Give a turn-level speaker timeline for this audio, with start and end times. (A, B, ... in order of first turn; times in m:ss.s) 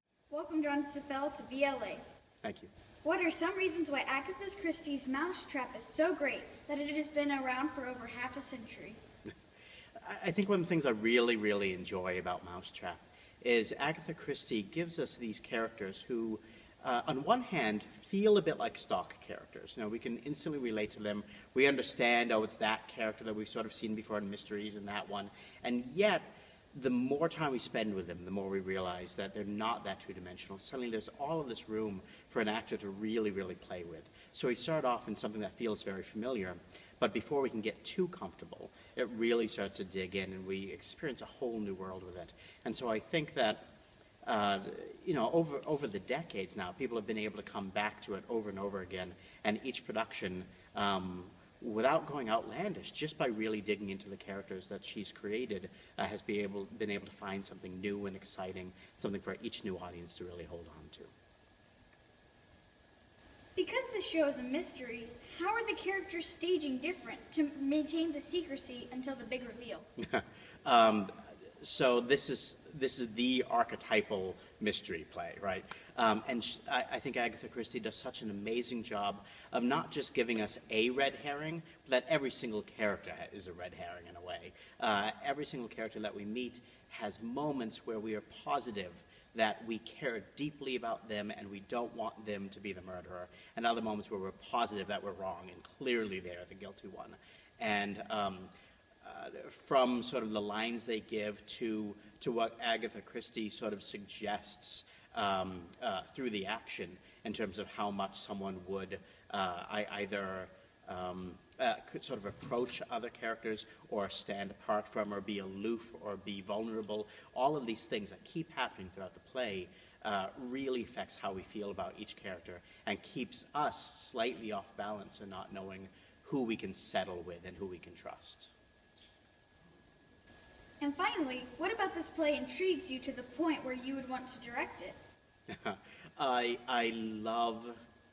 0:00.3-0:02.0 A
0:02.4-0:02.7 B
0:03.0-0:09.0 A
0:10.0-0:43.6 B
0:44.2-1:01.1 B
1:03.6-1:09.9 A
1:10.0-1:38.5 B
1:39.0-2:08.5 B
2:10.8-2:15.0 A
2:15.5-2:17.8 B